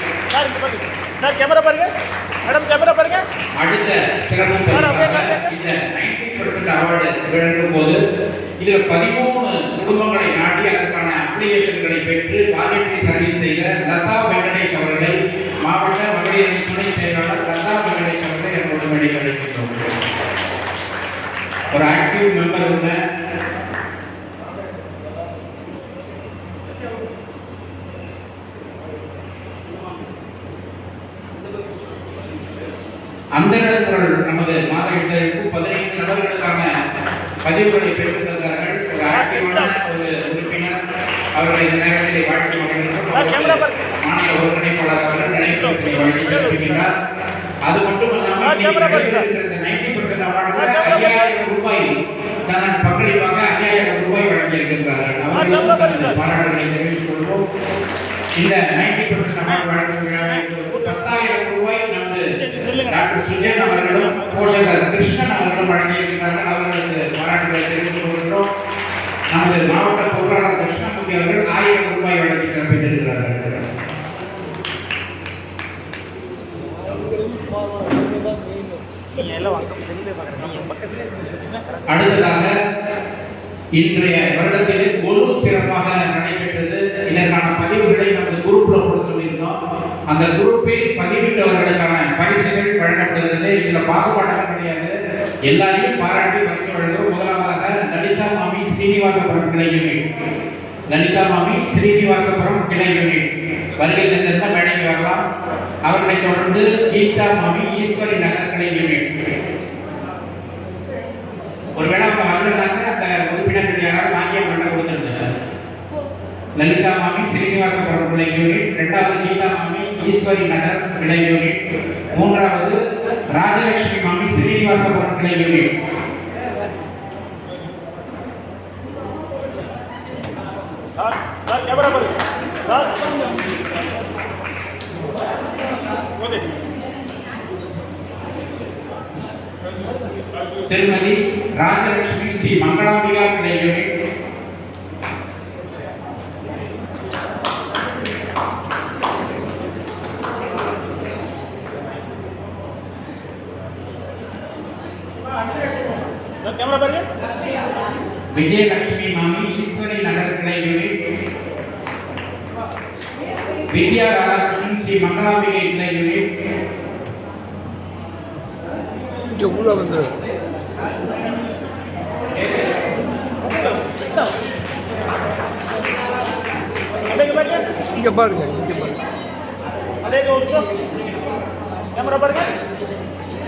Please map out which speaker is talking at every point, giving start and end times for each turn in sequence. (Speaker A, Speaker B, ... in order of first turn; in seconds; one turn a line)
Speaker A: 0.3-1.9
Speaker A: 2.5-3.2
Speaker B: 3.6-8.0
Speaker A: 4.7-5.5
Speaker B: 8.6-19.7
Speaker B: 21.7-23.0
Speaker B: 33.3-36.7
Speaker B: 37.4-40.8
Speaker A: 39.1-39.7
Speaker B: 41.4-46.9
Speaker A: 43.1-43.9
Speaker A: 45.5-46.9
Speaker B: 47.6-51.9
Speaker A: 48.4-49.2
Speaker A: 50.5-51.3
Speaker B: 52.5-57.4
Speaker A: 55.4-56.2
Speaker B: 58.4-62.3
Speaker A: 62.4-64.6
Speaker B: 62.8-68.5
Speaker B: 69.3-73.4
Speaker C: 76.8-79.0
Speaker A: 79.1-81.6
Speaker B: 81.9-82.5
Speaker B: 83.8-89.5
Speaker B: 90.1-94.9
Speaker B: 95.5-100.0
Speaker B: 100.9-105.2
Speaker B: 105.8-109.0
Speaker B: 111.8-115.2
Speaker B: 116.6-121.6
Speaker B: 122.1-122.8
Speaker B: 123.3-125.7
Speaker A: 131.0-132.9
Speaker A: 136.2-136.6
Speaker B: 140.7-143.9
Speaker A: 156.4-157.1
Speaker B: 158.3-160.9
Speaker B: 163.7-166.2
Speaker C: 169.3-170.2
Speaker A: 173.4-174.3
Speaker A: 177.1-177.6
Speaker C: 177.9-179.0
Speaker A: 180.0-180.7
Speaker A: 181.9-182.5